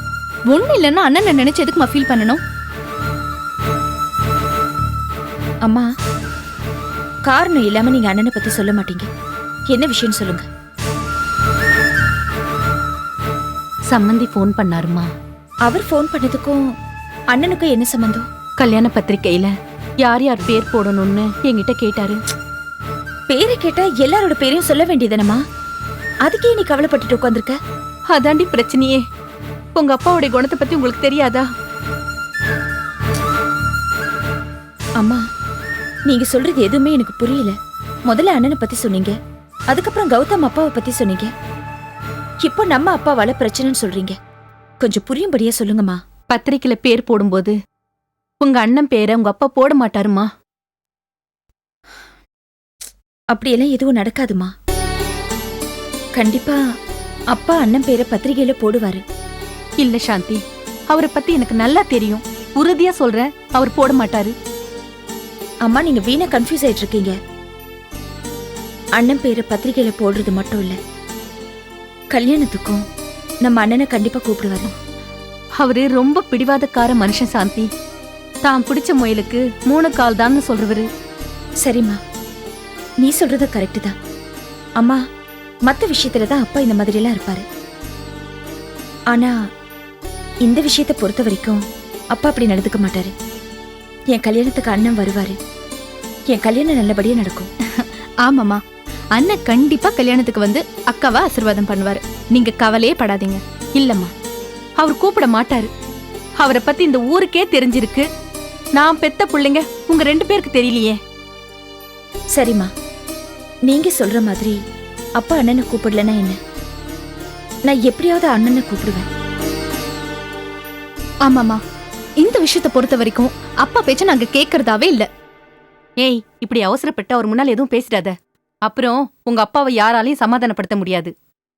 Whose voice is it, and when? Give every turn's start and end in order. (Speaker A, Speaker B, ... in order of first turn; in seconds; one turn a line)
Speaker A: 0.5-2.4
Speaker B: 7.3-9.1
Speaker B: 9.7-10.4
Speaker C: 13.9-15.1
Speaker B: 15.7-16.6
Speaker B: 17.3-18.2
Speaker C: 18.6-22.2
Speaker B: 23.3-25.4
Speaker B: 26.2-27.6
Speaker C: 28.1-29.0
Speaker C: 29.8-31.4
Speaker B: 36.1-37.5
Speaker B: 38.1-39.1
Speaker B: 39.7-41.3
Speaker B: 42.4-44.2
Speaker B: 44.8-46.0
Speaker C: 46.3-47.5
Speaker C: 48.4-50.3
Speaker B: 53.3-54.5
Speaker B: 56.1-56.6
Speaker B: 57.3-59.0
Speaker C: 59.8-64.3
Speaker B: 65.6-67.2
Speaker B: 69.0-70.8
Speaker B: 72.1-72.8
Speaker B: 73.4-74.7
Speaker C: 75.6-77.7
Speaker C: 78.4-80.9
Speaker B: 81.6-82.0
Speaker B: 83.0-83.9
Speaker B: 85.7-87.4
Speaker B: 90.4-91.6
Speaker B: 92.1-93.1
Speaker B: 94.1-95.4
Speaker B: 96.3-97.5
Speaker A: 98.2-98.6
Speaker A: 99.2-103.4
Speaker C: 103.8-104.1
Speaker C: 104.8-105.7
Speaker C: 106.4-108.0
Speaker C: 108.8-111.0
Speaker B: 112.3-112.7
Speaker B: 113.7-114.6
Speaker B: 115.2-116.4
Speaker B: 117.7-119.1
Speaker A: 121.2-121.6
Speaker A: 122.2-125.1
Speaker C: 126.0-128.1
Speaker C: 128.7-131.1